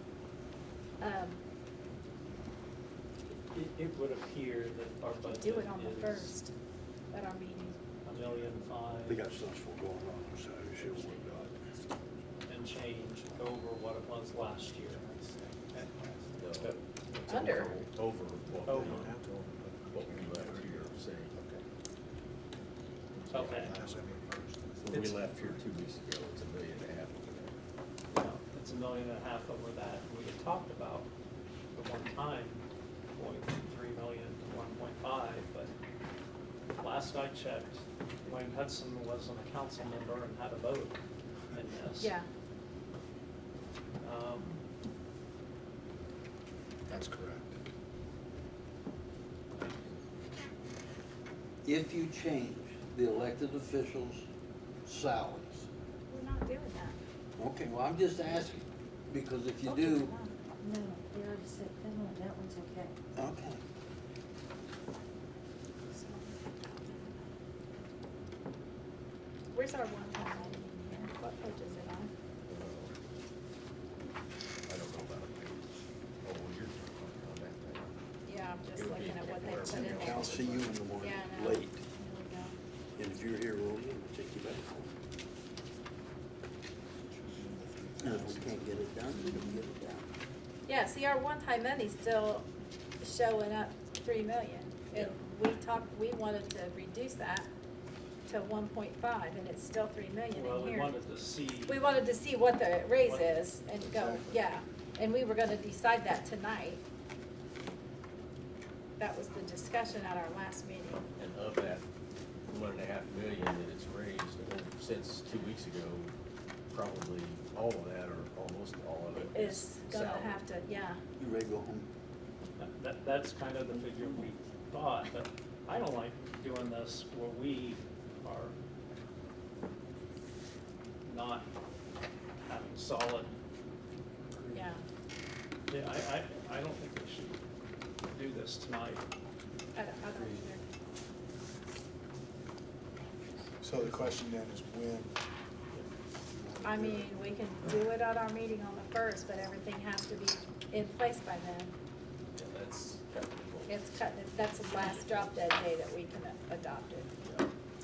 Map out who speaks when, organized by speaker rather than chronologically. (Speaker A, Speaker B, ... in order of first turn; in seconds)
Speaker A: 1.0-1.4, 5.2-6.5, 7.1-7.8, 17.3-17.8, 42.0-42.2, 56.1-57.0, 59.6-60.3, 65.9-67.3, 69.5-72.1, 78.2-82.5, 90.7-92.5, 93.0-97.5, 98.3-100.9, 101.6-106.8, 109.0-111.0, 119.1-121.0, 134.5-134.8, 139.7-140.6, 146.6-151.7, 153.7-157.1
Speaker B: 3.3-6.4, 8.0-9.2, 12.5-15.1, 18.6-19.1, 23.3-24.0, 28.1-31.1, 31.7-32.6, 33.1-35.7, 36.8-41.0, 41.5-42.2, 44.0-44.6, 100.3-101.9, 103.0-103.3, 122.6-128.5, 131.1-131.5, 132.5-133.3, 134.3-134.7, 135.7-137.4, 138.1-139.0
Speaker C: 8.2-8.5, 10.8-12.3, 13.0-13.5, 14.9-16.4, 18.6-21.6, 23.1-25.5, 46.9-47.6, 87.1-88.9, 103.8-104.4, 143.6-145.2, 146.4-147.2
Speaker D: 9.1-11.4, 51.6-54.2, 54.8-55.7, 57.4-60.1, 63.1-63.6, 79.7-81.8, 83.0-84.9, 88.0-90.1, 121.2-121.9
Speaker E: 10.8-11.4, 16.4-19.1, 19.9-21.3, 23.3-23.6, 24.8-27.6, 72.5-72.9, 74.7-75.7, 76.2-78.0, 78.7-80.7, 111.2-111.8, 112.5-116.1, 116.7-120.4, 152.3-155.5, 157.2-157.5
Speaker F: 60.6-63.0